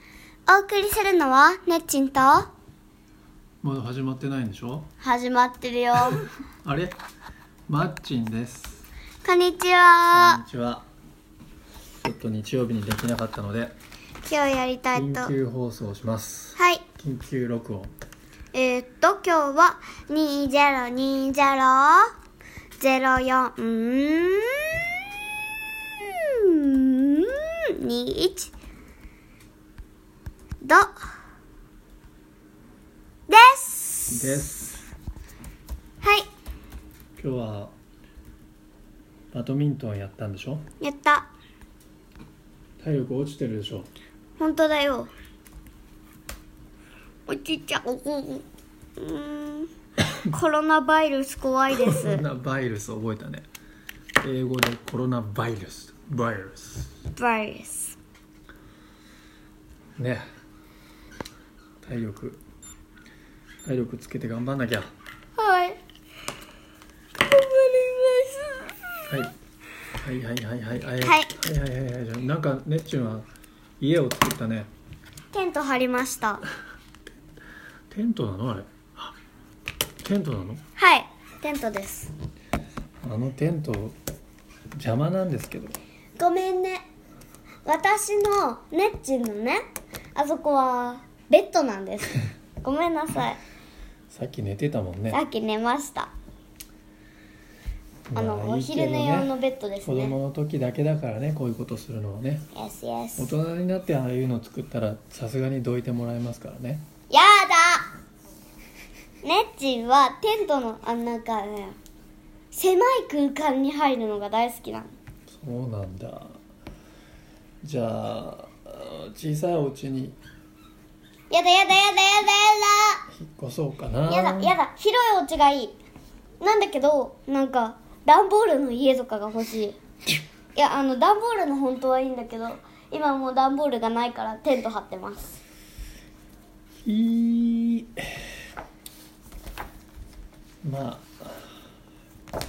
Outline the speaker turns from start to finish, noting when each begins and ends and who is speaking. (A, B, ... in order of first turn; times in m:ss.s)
0:00.5-0:02.5 A
0:03.6-0:04.9 B
0:05.0-0:06.3 A
0:06.6-0:07.0 B
0:07.7-0:08.9 B
0:09.2-0:10.4 A
0:10.1-0:10.9 B
0:12.0-0:13.8 B
0:14.2-0:15.3 A
0:14.9-0:17.9 B
0:16.6-0:16.8 A
0:18.5-0:22.1 A
0:22.8-0:24.8 A
0:26.0-0:28.5 A
0:30.6-0:31.0 A
0:33.3-0:34.2 A
0:34.1-0:34.9 B
0:36.0-0:36.3 A
0:37.2-0:37.7 B
0:39.3-0:40.6 B
0:40.8-0:41.3 A
0:42.8-0:43.9 B
0:44.4-0:45.1 A
0:47.3-0:48.4 A
0:49.0-0:49.7 A
0:50.2-0:52.2 A
0:51.7-0:53.4 B
0:54.2-0:56.9 B
0:57.2-0:58.0 A
1:00.0-1:00.2 B
1:01.8-1:02.4 B
1:03.6-1:04.9 B
1:05.4-1:05.8 A
1:07.2-1:08.8 A
1:09.1-1:09.3 B
1:10.0-1:13.3 B
1:11.0-1:11.4 A
1:13.8-1:14.7 B
1:15.3-1:16.4 A
1:17.9-1:19.1 B
1:20.0-1:20.6 B
1:20.8-1:22.1 A
1:23.0-1:24.0 B
1:24.7-1:25.8 B
1:26.2-1:26.8 A
1:27.6-1:29.6 A
1:30.2-1:33.4 A
1:34.1-1:35.2 B
1:35.1-1:36.1 A
1:38.1-1:42.5 B
1:38.2-1:40.1 A
1:42.5-1:43.3 A
1:43.2-1:46.8 B
1:47.1-1:47.9 A
1:49.2-1:51.8 A
1:52.5-1:54.9 A
1:55.3-1:56.4 B
1:57.6-2:00.2 B
2:01.3-2:03.1 A
2:03.1-2:04.6 B
2:04.1-2:05.8 A
2:06.4-2:09.8 A
2:10.6-2:15.4 A
2:16.8-2:18.3 B
2:20.6-2:21.6 B